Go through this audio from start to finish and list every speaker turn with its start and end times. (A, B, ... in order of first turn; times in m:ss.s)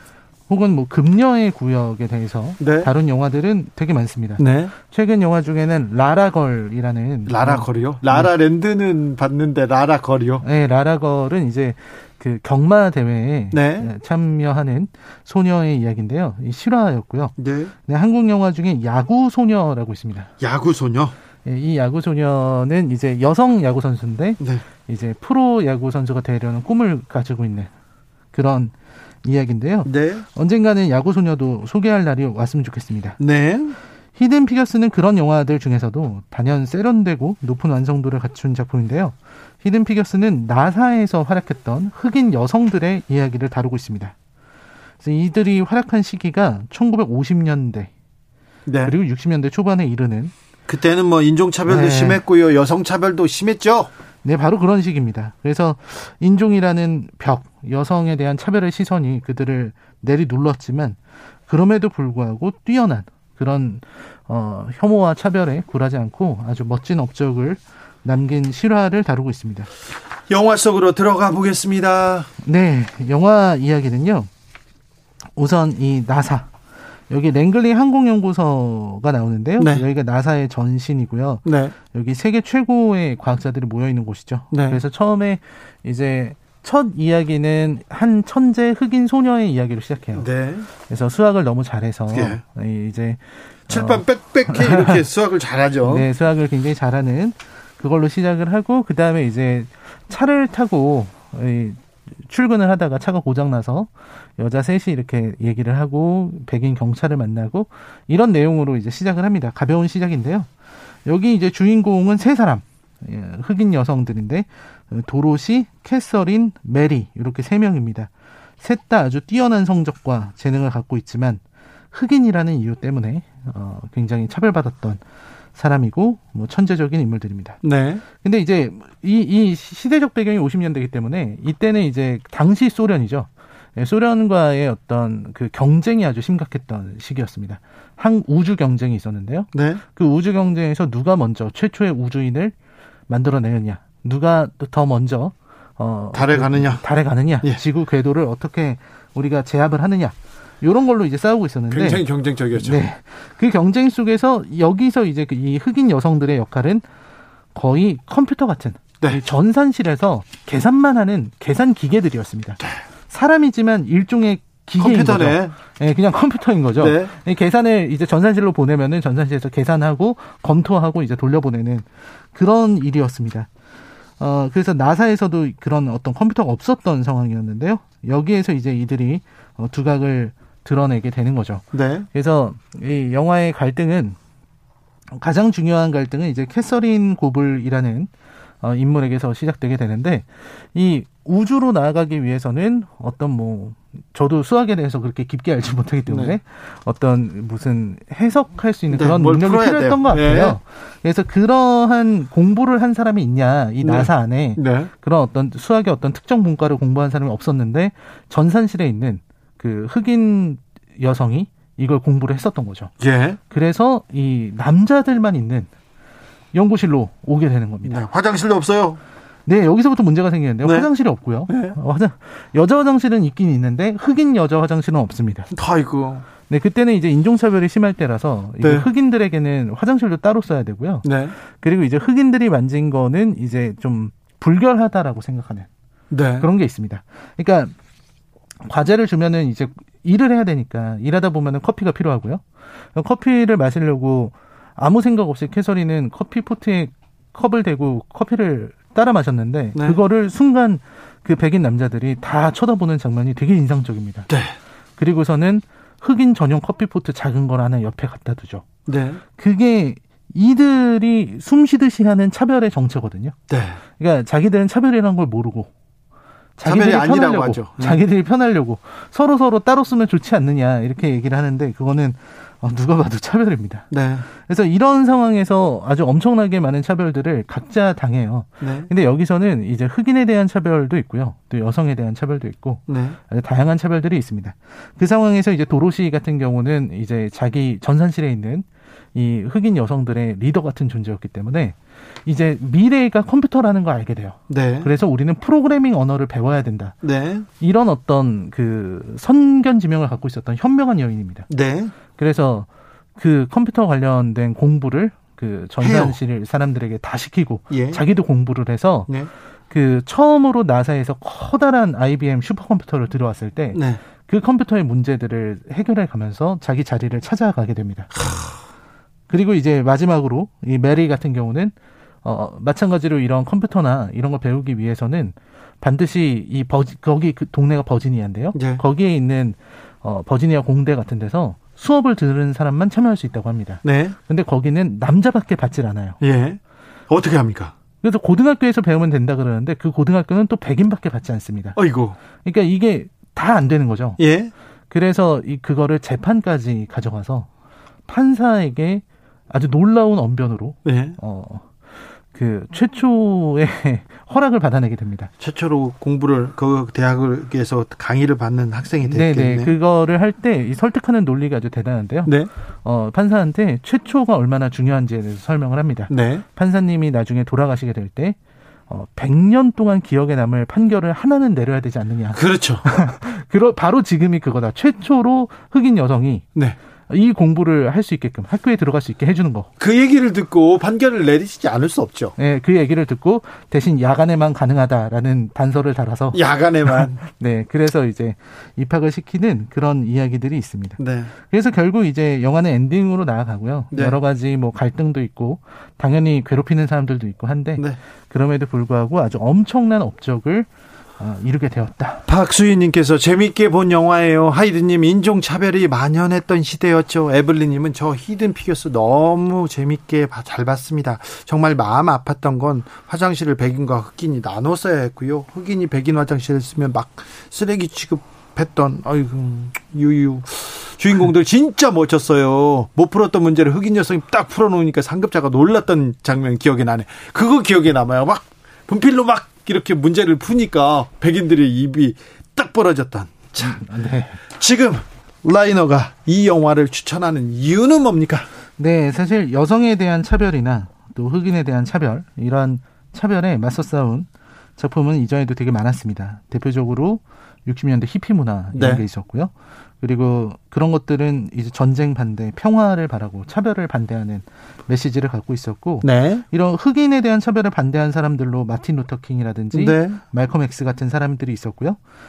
0:00.5-0:08.3 A
0:02.6-0:02.9 B
0:04.4-0:04.7 B
0:07.3-0:10.4 B
0:10.4-0:17.3 A
0:13.5-0:13.9 B
0:17.4-0:17.7 B
0:17.8-0:20.3 A
0:20.4-0:21.1 B
0:21.4-0:27.7 A
0:28.3-0:28.7 A
0:29.2-0:33.2 A
0:29.8-0:30.2 B
0:33.2-0:33.8 B
0:34.2-0:44.1 A
0:45.0-0:47.9 A
0:48.6-0:48.9 B
0:48.8-0:50.3 A
0:50.7-0:53.9 B
0:51.6-0:52.2 A
0:54.2-1:09.7 A
1:10.3-1:12.3 B
1:12.4-1:14.3 A
1:15.4-1:16.5 A
1:17.1-1:30.3 A
1:19.6-1:19.8 B
1:21.4-1:21.7 B
1:24.5-1:24.8 B
1:30.2-1:30.7 B
1:30.9-1:35.0 A
1:32.1-1:32.4 B
1:33.7-1:36.1 B
1:35.8-1:50.5 A
1:51.0-2:01.4 A
2:01.9-2:05.0 A
2:05.5-2:07.6 A
2:07.6-2:08.0 B
2:08.1-2:22.5 A
2:19.5-2:19.8 B
2:23.1-2:36.8 A
2:26.1-2:26.8 B
2:31.7-2:32.8 B
2:37.5-2:53.5 A
2:44.8-2:45.5 B
2:46.8-2:47.1 B
2:54.2-3:04.2 A
3:01.7-3:02.1 B
3:05.1-3:08.1 A
3:08.6-3:32.9 A
3:16.1-3:16.4 B
3:18.9-3:20.6 B
3:23.8-3:24.9 B
3:33.0-3:33.4 B
3:33.5-3:35.7 A
3:36.5-3:38.0 A
3:37.8-3:39.0 B
3:39.4-3:45.5 A
3:40.6-3:40.9 B
3:41.5-3:41.8 B
3:45.5-3:46.2 B
3:46.5-3:55.7 A
3:48.6-3:48.9 B
3:51.0-3:51.3 B
3:56.1-3:56.5 B
3:56.4-3:57.7 A
3:58.6-4:02.4 A
4:02.9-4:14.3 A
4:09.7-4:10.0 B
4:14.3-4:14.5 B
4:15.0-4:18.6 A
4:18.9-4:19.2 B
4:19.4-4:23.3 A
4:23.5-4:23.8 B
4:24.0-4:25.7 A
4:26.6-4:56.9 A
4:26.6-4:28.0 B
4:33.9-4:34.2 B
4:38.6-4:38.9 B
4:42.9-4:43.2 B
4:54.5-4:54.9 B
4:57.0-4:57.5 B
4:57.6-5:01.5 A
5:01.5-5:01.9 B
5:02.1-5:09.1 A
5:05.8-5:06.2 B
5:07.7-5:08.0 B
5:09.7-5:18.1 A
5:13.7-5:14.0 B
5:18.2-5:18.5 B
5:19.3-5:36.2 A
5:28.5-5:28.8 B
5:33.8-5:34.2 B
5:36.2-5:37.7 B
5:38.0-5:41.8 A
5:41.8-5:42.2 B
5:42.4-5:44.2 A
5:44.2-5:44.5 B
5:44.9-5:47.5 A
5:48.1-5:51.6 A
5:50.8-5:51.2 B
5:52.3-5:55.3 A
5:55.4-5:59.7 B
5:59.0-6:08.4 A
6:02.2-6:02.5 B
6:06.1-6:06.4 B
6:08.9-6:16.4 A
6:12.3-6:12.8 B
6:17.1-6:19.7 A
6:19.8-6:22.3 B
6:22.4-6:26.4 A
6:26.3-6:27.2 B
6:26.9-6:40.7 A
6:31.0-6:31.3 B
6:33.9-6:34.2 B
6:41.2-6:42.2 A
6:42.3-7:18.5 B
7:13.6-7:14.4 A
7:18.8-7:42.0 A
7:28.7-7:29.0 B
7:36.0-7:36.4 B
7:39.7-7:40.2 B